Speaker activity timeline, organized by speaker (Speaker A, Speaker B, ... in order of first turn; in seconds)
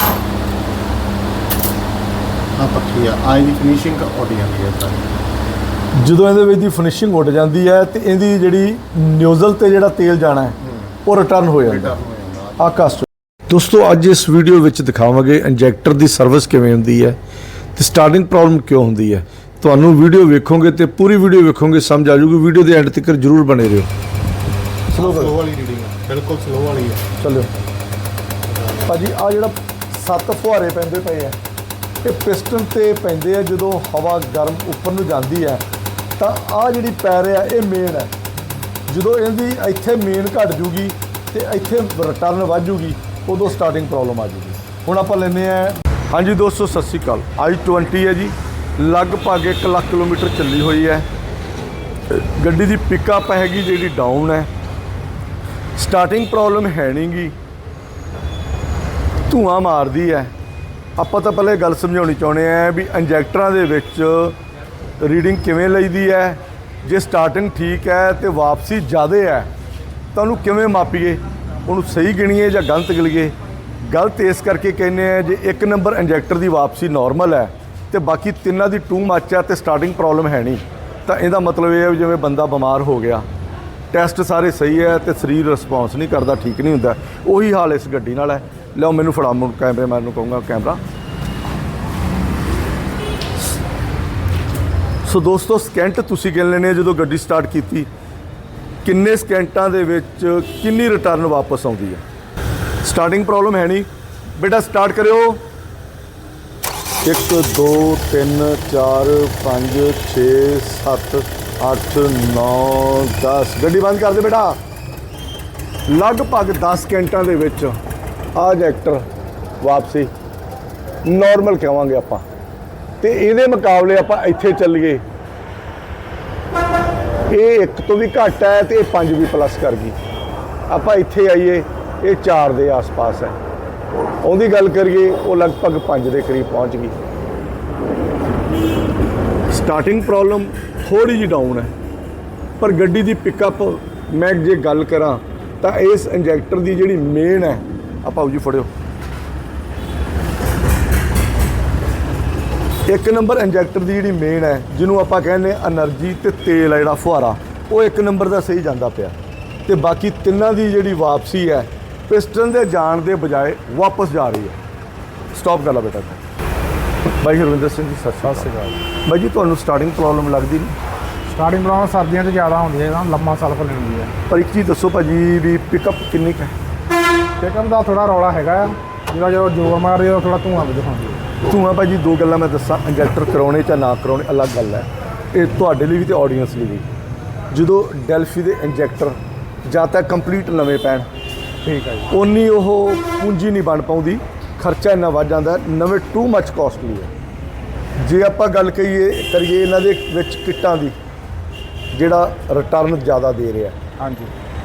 Speaker A: 2.5-5.1, 10.6-10.9, 11.7-12.7, 24.9-27.0, 28.5-28.9
Speaker B: 6.0-12.0, 12.6-17.2, 17.8-23.9, 24.9-25.4, 27.2-27.5, 28.8-31.4, 32.0-35.6, 36.2-38.1, 38.9-51.1, 52.1-54.5, 55.8-57.3, 59.3-60.3, 61.0-64.4, 65.0-69.5, 70.2-73.3, 73.9-83.3, 83.9-90.8, 95.0-97.9, 98.8-102.0, 102.8-105.4, 107.0-114.6, 115.9-117.8, 118.3-119.0, 119.6-120.1, 121.0-122.2, 123.0-125.0, 127.3-129.9, 130.7-133.3, 134.2-136.9, 139.5-141.7, 142.6-148.7, 152.9-159.1, 159.7-164.6, 165.3-166.2, 167.2-168.5, 169.0-170.8, 174.3-176.5, 181.4-186.9, 187.5-191.1, 192.1-197.1, 198.0-200.9, 201.9-203.8
Speaker C: 168.2-168.8, 171.3-174.1, 177.4-181.2, 191.6-192.1, 204.0-204.3